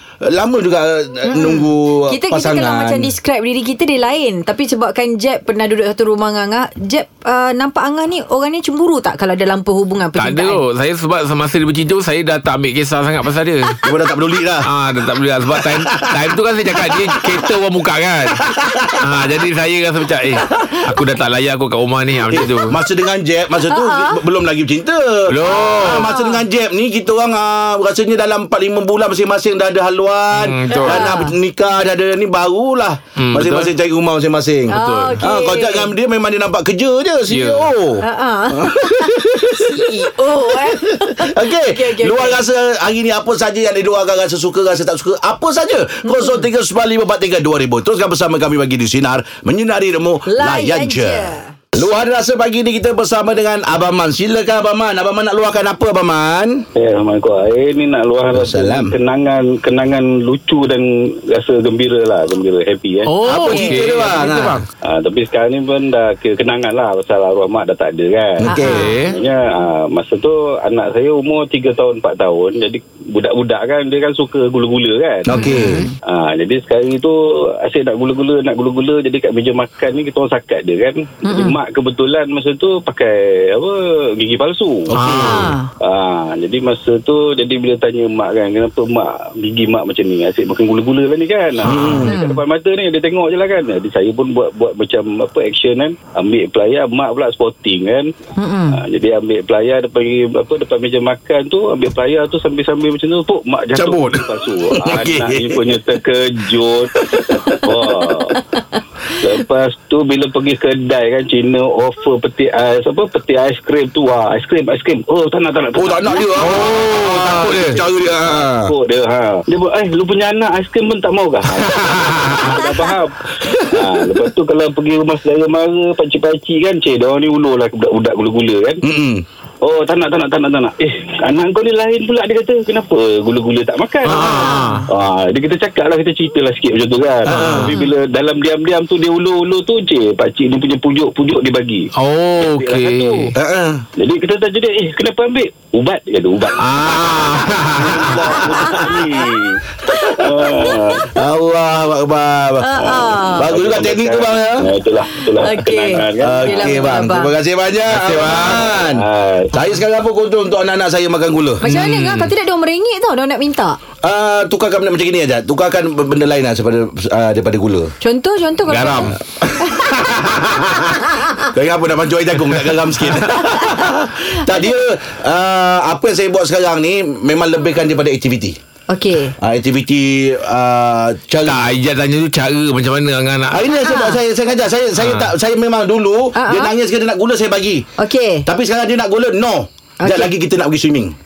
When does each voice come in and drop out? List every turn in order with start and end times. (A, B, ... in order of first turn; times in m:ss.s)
0:00.2-0:03.1 A
0:01.3-0:10.6 B
0:10.2-0:13.8 C
0:13.8-0:14.7 A
0:14.6-0:18.4 C
0:15.5-0:17.4 A
0:18.4-0:19.0 A
0:19.0-0:22.7 C
0:22.3-0:56.6 A
0:23.7-0:24.2 B
0:25.3-0:26.1 C
0:25.8-0:26.4 B
0:30.3-0:31.2 C
0:30.7-0:31.3 B
0:33.2-0:33.7 C
0:34.7-0:35.9 B
0:34.7-0:35.2 C
0:37.3-0:37.7 C
0:38.0-0:42.4 B
0:46.0-0:46.4 B
0:50.2-0:51.5 B
0:56.7-1:03.2 D
0:58.3-0:58.9 A
1:03.1-1:04.6 C
1:03.2-1:04.6 A
1:03.3-1:03.7 B
1:04.9-1:15.5 D
1:08.4-1:08.8 A
1:08.4-1:08.9 B
1:08.6-1:09.2 C
1:15.2-1:15.9 A
1:15.3-1:15.9 B
1:16.0-1:38.1 D
1:21.2-1:21.6 B
1:24.9-1:25.5 C
1:25.1-1:25.7 B
1:31.6-1:32.1 A
1:32.0-1:32.4 B
1:38.4-1:38.8 B
1:38.7-1:48.4 D
1:43.7-1:44.2 A
1:44.8-1:45.8 A
1:47.1-1:47.8 A
1:49.2-2:08.8 D
1:55.8-1:58.7 A
1:56.6-1:57.8 C
2:01.7-2:02.4 C
2:02.5-2:02.9 B
2:03.5-2:03.9 A
2:08.8-2:09.2 A
2:09.6-2:21.9 D
2:14.0-2:14.8 C
2:14.4-2:14.8 B
2:17.2-2:17.7 A
2:17.3-2:17.7 C
2:22.0-2:23.3 C
2:22.4-2:23.3 D
2:23.4-2:23.8 A
2:24.0-2:26.9 D
2:26.6-2:28.6 C
2:27.7-2:29.2 A
2:28.6-2:31.1 D
2:29.8-2:34.6 A
2:32.6-2:33.5 B
2:32.8-2:36.9 D
2:35.4-2:37.3 B
2:36.2-2:41.6 A
2:37.9-2:38.6 C
2:38.6-2:39.7 D
2:41.6-2:43.8 B
2:41.6-2:42.3 C
2:44.0-2:47.9 A
2:48.0-2:49.9 B
2:48.7-2:49.2 C
2:49.4-2:58.6 A
2:58.9-2:59.3 B
2:59.4-3:01.7 A
3:01.4-3:03.6 C
3:03.5-3:07.8 A
3:03.8-3:04.2 B
3:05.0-3:05.3 C
3:06.4-3:06.7 B
3:08.0-3:08.4 B
3:08.4-3:11.1 A
3:10.0-3:10.3 B